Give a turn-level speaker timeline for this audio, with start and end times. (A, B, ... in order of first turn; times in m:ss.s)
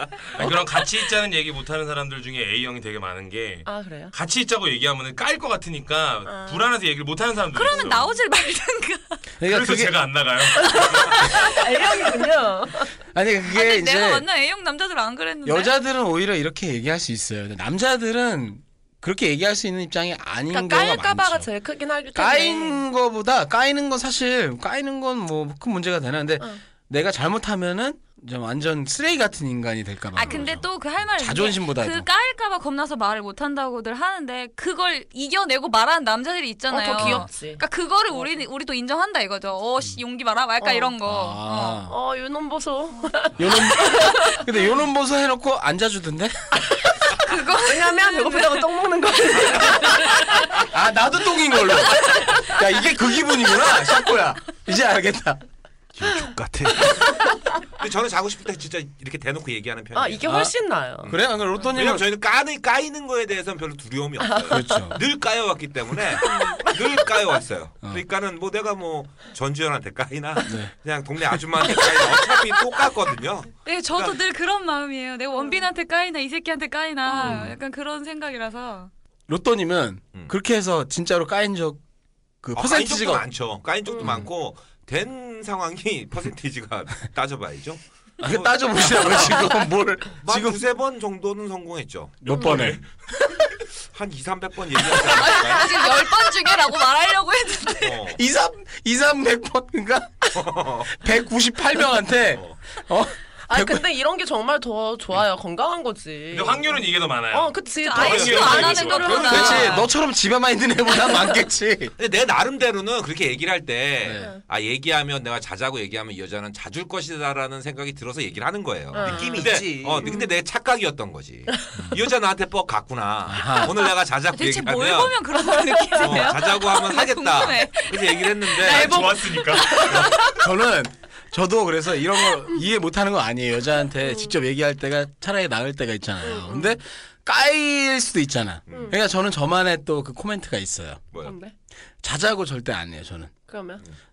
0:00.3-0:08.1 A
0:03.6-0:04.1 B
0:06.2-0:06.7 B
0:07.5-0:09.3 C
0:07.7-0:08.1 B
0:09.4-0:10.0 D
0:09.4-0:11.5 A
0:10.6-0:12.9 B
0:13.1-0:14.2 D
0:13.5-0:15.7 C
0:15.4-0:21.5 D
0:20.5-0:22.8 B
0:22.1-0:32.1 D
0:30.1-0:41.8 C
0:30.2-0:30.6 B
0:36.7-0:38.4 B
0:37.0-0:37.3 D
0:40.6-0:40.9 B
0:41.0-0:41.9 D
0:41.9-0:44.5 B
0:43.4-0:46.6 D
0:47.2-0:48.7 C
0:47.6-0:50.6 B
0:50.6-0:55.4 D
0:51.9-0:52.4 B
0:55.9-0:57.0 E
0:57.8-1:00.3 F
0:59.9-1:01.1 B
1:00.2-1:00.5 D
1:01.0-1:14.2 F
1:01.0-1:02.1 D
1:04.2-1:04.8 B
1:04.5-1:05.0 D
1:06.2-1:06.8 B
1:10.4-1:10.7 D
1:13.6-1:18.9 C
1:17.1-1:17.4 B
1:17.2-1:17.5 D
1:19.3-1:21.8 D
1:22.4-1:23.2 D
1:22.5-1:29.5 F
1:23.9-1:24.2 B
1:28.2-1:30.6 D
1:30.2-1:32.7 F
1:32.2-1:32.8 D
1:32.3-1:32.8 A
1:33.9-1:36.0 F
1:35.0-1:38.1 C
1:37.8-1:38.2 F
1:38.1-1:43.8 D
1:40.3-1:40.9 F
1:42.3-1:42.6 F
1:43.5-1:49.7 B
1:46.3-1:49.8 A
1:47.7-1:49.9 C
1:49.0-1:51.9 D
1:52.0-2:05.2 F
1:54.0-1:54.3 D
1:58.9-1:59.5 B
1:59.0-2:00.1 E
2:00.0-2:00.3 B
2:03.3-2:03.7 D
2:04.3-2:10.0 C
2:05.5-2:06.2 B
2:06.0-2:09.2 F
2:08.6-2:10.2 A
2:08.7-2:10.2 B
2:10.2-2:21.0 D
2:14.0-2:14.3 B
2:16.2-2:16.7 B
2:18.7-2:19.0 F
2:18.7-2:18.9 B
2:21.1-2:21.4 F
2:21.2-2:21.5 B
2:22.0-2:23.3 D
2:23.5-2:23.8 B